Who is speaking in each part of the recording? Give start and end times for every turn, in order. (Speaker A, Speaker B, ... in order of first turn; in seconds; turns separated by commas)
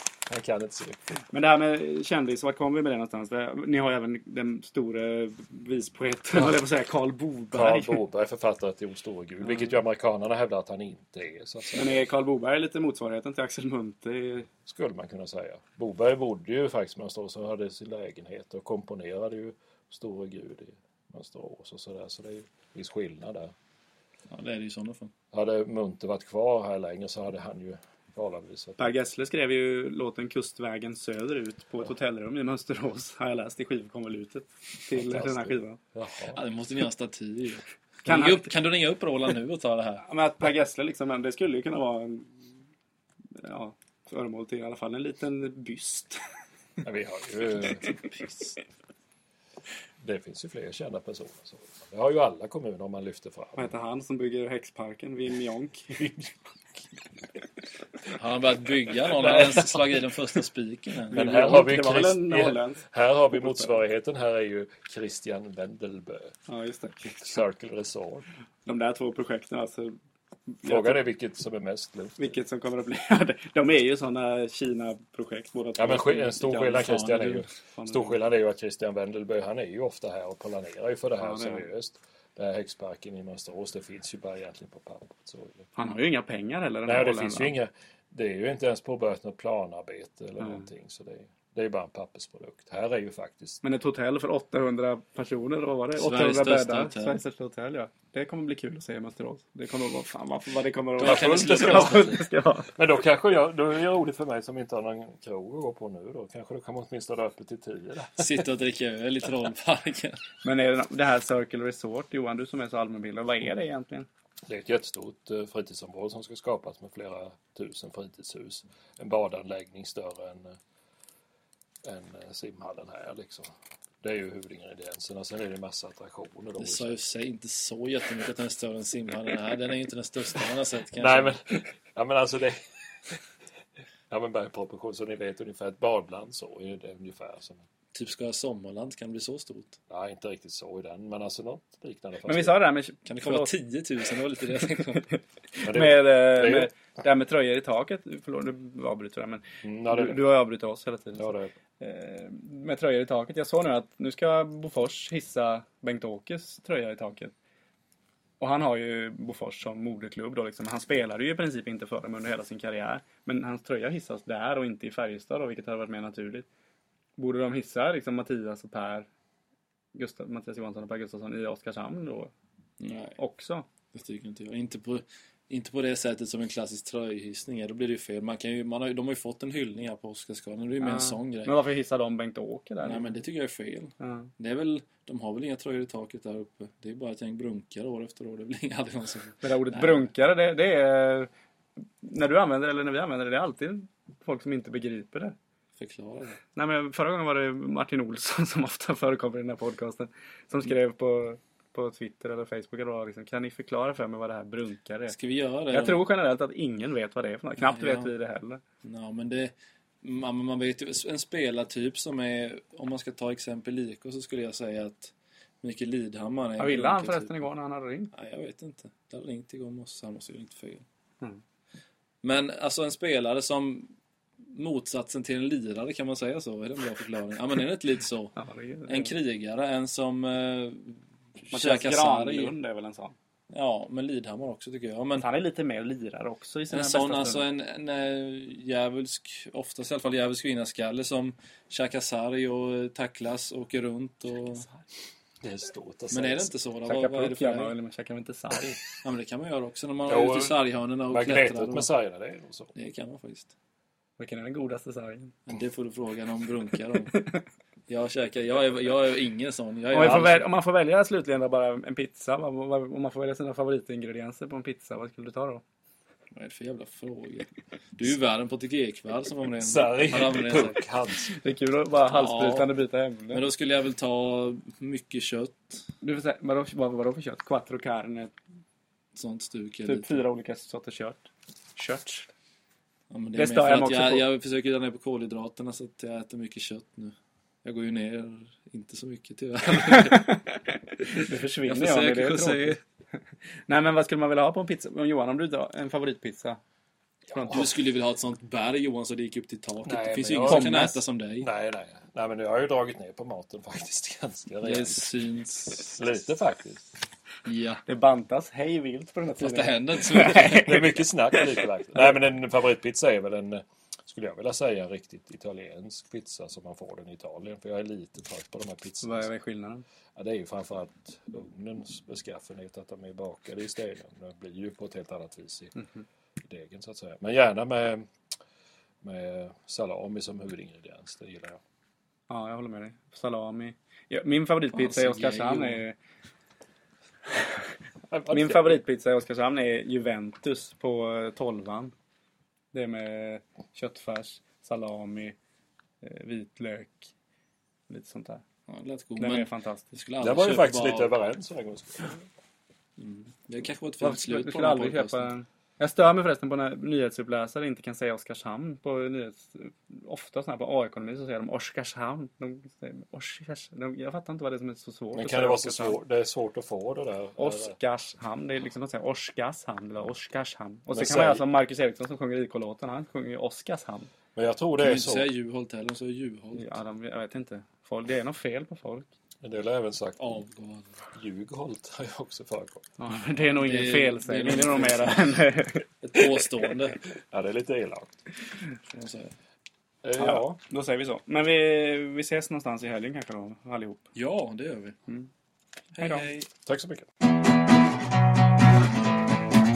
Speaker A: 0.3-1.2, Speaker B: 1.3-8.0, Speaker A: 7.5-12.0, Speaker B: 11.7-14.5, Speaker A: 14.7-23.5, Speaker C: 24.3-25.1, Speaker A: 25.3-28.9, Speaker B: 28.8-35.8, Speaker A: 34.9-36.4, Speaker C: 36.3-40.1, Speaker B: 38.0-38.5, Speaker B: 40.0-42.3, Speaker B: 43.4-46.2, Speaker A: 46.8-48.0, Speaker A: 50.0-53.7, Speaker B: 53.6-56.0, Speaker A: 56.0-56.4, Speaker C: 58.1-61.2, Speaker B: 59.1-59.7, Speaker A: 61.1-66.3, Speaker B: 61.1-63.8, Speaker B: 66.5-67.2, Speaker A: 67.2-68.3, Speaker B: 68.7-70.0, Speaker B: 70.5-71.0, Speaker A: 70.7-72.4, Speaker B: 72.2-77.0, Speaker A: 75.8-85.7, Speaker C: 76.8-77.5, Speaker B: 77.8-78.2, Speaker B: 81.2-81.7, Speaker B: 85.8-87.5, Speaker A: 86.9-93.6, Speaker B: 90.4-90.7, Speaker B: 93.6-102.7, Speaker C: 96.0-97.2, Speaker C: 101.0-102.2, Speaker A: 101.0-102.1, Speaker A: 102.8-108.4, Speaker C: 108.2-110.2, Speaker B: 110.4-114.1, Speaker A: 114.5-120.6, Speaker A: 121.8-127.0, Speaker C: 126.6-131.3, Speaker A: 130.9-133.2, Speaker A: 134.1-137.6, Speaker C: 137.9-139.8, Speaker A: 139.9-142.5, Speaker B: 142.3-143.5, Speaker C: 143.1-145.1, Speaker B: 144.8-157.3, Speaker A: 145.6-146.7, Speaker A: 149.6-150.2, Speaker A: 151.2-151.5, Speaker B: 158.4-166.5, Speaker B: 167.2-169.1, Speaker B: 169.9-172.3, Speaker C: 172.8-173.2, Speaker B: 173.2-173.7, Speaker C: 173.9-181.6, Speaker B: 180.8-183.0, Speaker C: 182.8-190.1, Speaker B: 184.0-184.3, Speaker B: 189.4-191.3, Speaker B: 192.0-195.4, Speaker C: 195.8-196.4, Speaker B: 196.6-205.2, Speaker C: 205.1-206.0, Speaker B: 205.7-208.6, Speaker C: 207.6-208.1, Speaker C: 208.8-217.4, Speaker B: 216.6-218.1, Speaker C: 218.1-220.8, Speaker C: 222.2-223.9, Speaker C: 224.5-228.4, Speaker B: 228.4-229.2, Speaker C: 228.9-231.0, Speaker C: 231.5-232.5, Speaker B: 231.5-233.2, Speaker C: 233.5-235.3, Speaker B: 235.2-237.5, Speaker C: 236.7-244.7, Speaker A: 245.4-246.5, Speaker C: 246.1-247.7, Speaker B: 246.9-248.8, Speaker C: 249.0-251.9, Speaker A: 250.1-252.7, Speaker C: 252.8-253.5, Speaker B: 254.2-255.4, Speaker C: 255.5-257.2, Speaker C: 257.9-260.5, Speaker B: 259.9-265.6, Speaker C: 266.3-270.8, Speaker A: 269.6-271.3, Speaker B: 271.3-273.4, Speaker C: 272.1-272.7, Speaker C: 273.3-275.9, Speaker B: 276.0-278.3, Speaker C: 279.1-280.2, Speaker B: 279.9-282.3, Speaker C: 283.1-290.4, Speaker B: 283.4-284.3, Speaker B: 289.8-292.8, Speaker C: 291.7-292.8, Speaker B: 293.7-296.6, Speaker A: 297.3-297.6, Speaker C: 297.3-301.5, Speaker A: 299.9-300.8, Speaker B: 300.5-301.0, Speaker A: 301.4-305.1, Speaker C: 304.6-306.1, Speaker A: 305.9-306.9, Speaker C: 307.4-307.8, Speaker B: 307.9-311.5, Speaker C: 309.4-310.8, Speaker A: 310.6-319.3, Speaker B: 319.0-319.9, Speaker A: 320.2-325.7, Speaker B: 325.8-326.0, Speaker A: 326.4-328.1, Speaker A: 329.0-331.6, Speaker B: 332.3-336.0, Speaker C: 334.7-335.8, Speaker B: 337.3-337.6, Speaker A: 338.1-338.8, Speaker B: 338.3-341.9, Speaker B: 342.7-345.4, Speaker B: 346.0-347.1, Speaker B: 347.9-348.4, Speaker C: 348.7-351.1, Speaker B: 349.2-349.9, Speaker A: 350.2-352.2, Speaker C: 353.0-355.3, Speaker B: 354.0-366.0, Speaker A: 365.1-367.8, Speaker B: 367.4-374.1, Speaker A: 370.9-371.4, Speaker A: 374.4-375.3, Speaker C: 374.8-376.8, Speaker B: 376.6-379.1, Speaker A: 379.4-380.3, Speaker C: 380.2-381.0, Speaker A: 381.1-383.0, Speaker B: 383.0-386.7, Speaker C: 383.6-385.4, Speaker C: 386.0-387.0, Speaker A: 387.3-388.2, Speaker C: 388.9-389.3, Speaker A: 390.0-390.6, Speaker B: 390.2-394.1, Speaker C: 394.1-395.0, Speaker C: 396.0-396.5, Speaker B: 396.0-396.2, Speaker A: 396.7-397.1